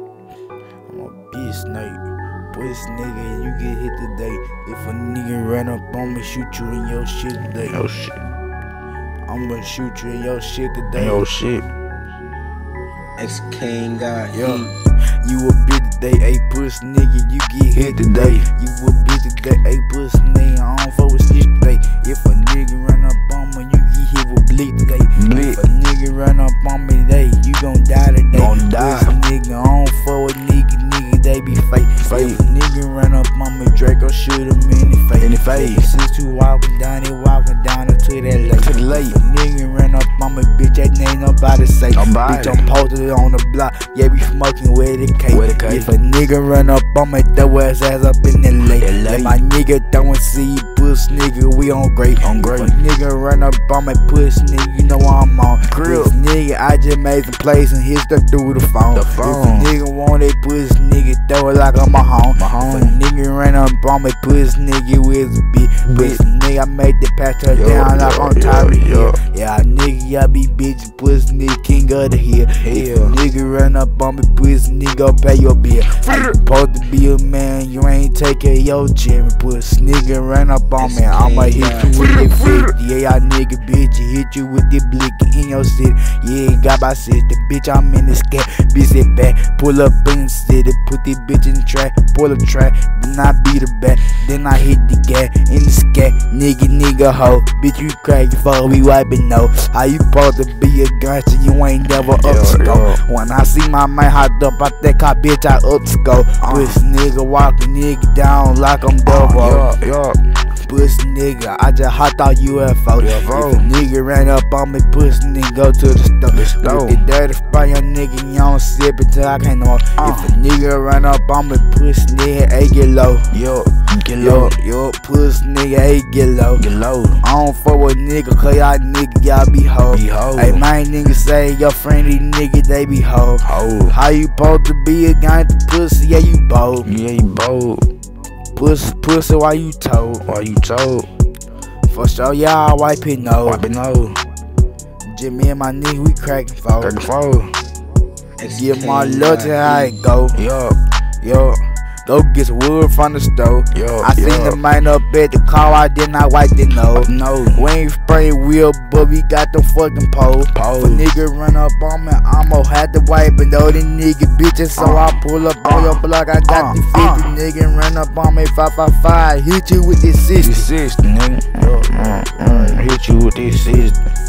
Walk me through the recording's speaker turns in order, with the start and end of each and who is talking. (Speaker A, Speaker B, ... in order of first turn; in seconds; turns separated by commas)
Speaker A: 0.9-7.8, Speaker B: 7.4-8.2, Speaker A: 9.3-11.3, Speaker B: 11.0-11.7, Speaker C: 13.2-14.7, Speaker B: 14.3-14.7, Speaker A: 15.2-109.7, Speaker B: 17.8-18.5, Speaker B: 25.1-25.6, Speaker B: 28.3-29.2, Speaker B: 32.0-32.4, Speaker B: 35.2-35.9, Speaker B: 38.5-39.2, Speaker B: 41.9-42.7, Speaker B: 45.3-45.9, Speaker B: 48.8-49.4, Speaker B: 52.2-52.7, Speaker B: 55.7-56.1, Speaker B: 59.0-59.7, Speaker B: 62.4-63.0, Speaker B: 65.8-66.2, Speaker B: 67.5-69.2, Speaker B: 72.6-73.2, Speaker C: 80.8-82.0, Speaker B: 102.1-103.0, Speaker B: 106.4-106.8, Speaker B: 109.1-110.2, Speaker A: 110.7-123.3, Speaker B: 113.0-113.7, Speaker B: 116.3-117.0, Speaker B: 120.0-120.4, Speaker B: 123.3-124.5, Speaker A: 124.2-126.7, Speaker B: 126.6-127.2, Speaker A: 127.2-136.9, Speaker B: 129.9-130.6, Speaker B: 133.4-133.9, Speaker B: 136.8-137.9, Speaker A: 138.6-140.2, Speaker B: 140.2-141.1, Speaker A: 141.9-143.6, Speaker B: 143.4-144.2, Speaker A: 145.1-147.0, Speaker B: 146.8-147.5, Speaker C: 148.4-149.9, Speaker A: 148.5-150.4, Speaker B: 150.3-150.8, Speaker A: 151.2-170.7, Speaker B: 153.7-154.6, Speaker B: 157.0-157.7, Speaker B: 160.5-161.0, Speaker B: 164.8-167.3, Speaker B: 170.4-174.0, Speaker A: 171.6-173.0